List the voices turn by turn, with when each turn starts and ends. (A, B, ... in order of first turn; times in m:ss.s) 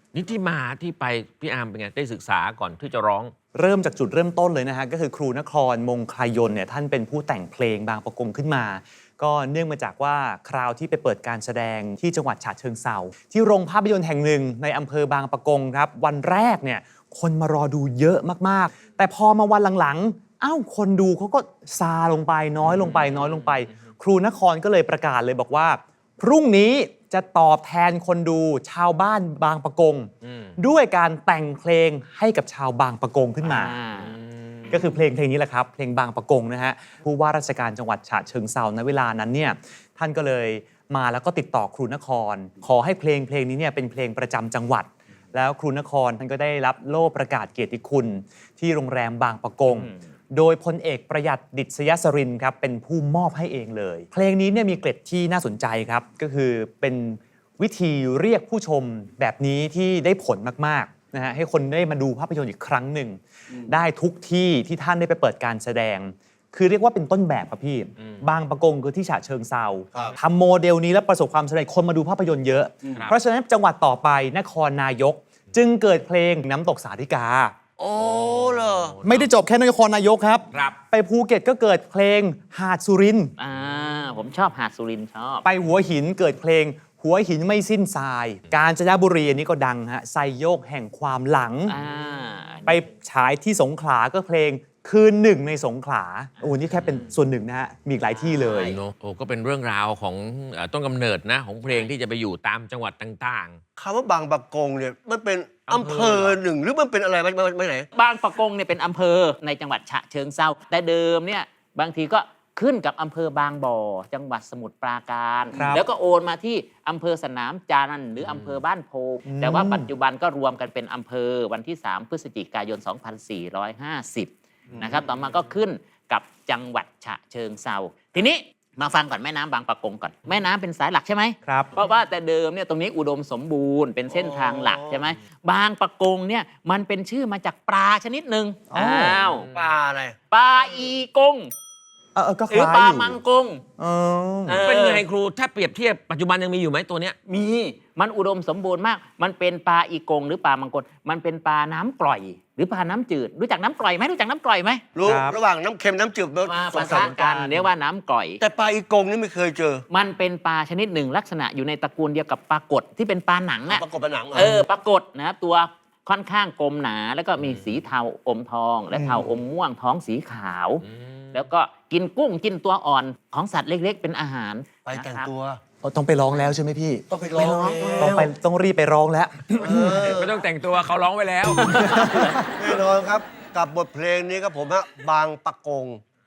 0:00.1-0:03.3 A
0:03.5-0:33.8 B
0:22.6-0:23.6 A
0:30.2-0:30.5 A
0:33.4-0:34.1 C
0:34.0-0:34.8 A
0:34.7-1:17.5 B
0:49.7-0:50.0 C
1:17.8-1:19.0 D
1:18.0-1:19.3 A
1:19.0-1:23.3 B
1:20.5-1:20.8 A
1:23.4-1:25.4 C
1:25.4-1:31.8 B
1:31.7-1:32.8 C
1:32.6-1:38.8 B
1:36.7-1:37.1 A
1:38.1-1:38.8 C
1:38.6-1:43.6 A
1:41.6-1:41.9 C
1:43.8-1:47.9 D
1:45.7-1:46.4 A
1:47.9-2:19.5 C
1:55.5-1:55.8 B
1:58.2-1:58.6 A
1:59.2-1:59.9 B
2:11.4-2:11.7 B
2:14.1-2:15.0 D
2:18.7-2:19.2 B
2:19.4-2:19.7 A
2:19.5-2:20.2 D
2:20.3-2:21.5 C
2:22.1-2:23.2 B
2:22.5-2:23.6 C
2:23.8-2:24.6 B
2:24.5-2:25.0 C
2:24.6-2:27.2 A
2:27.2-2:34.8 C
2:34.9-2:37.6 D
2:35.0-2:35.4 B
2:36.4-2:38.4 C
2:36.9-2:37.2 A
2:38.4-2:39.8 D
2:39.9-2:55.3 C
2:43.7-2:44.6 D
2:48.9-2:49.3 B
2:50.9-2:51.3 A
2:54.8-2:55.6 D
2:55.8-3:00.2 B
2:57.1-2:58.3 D
2:57.7-2:58.1 C
2:59.6-3:00.4 D
3:00.0-3:02.1 A
3:01.6-3:02.4 B
3:02.6-3:06.0 D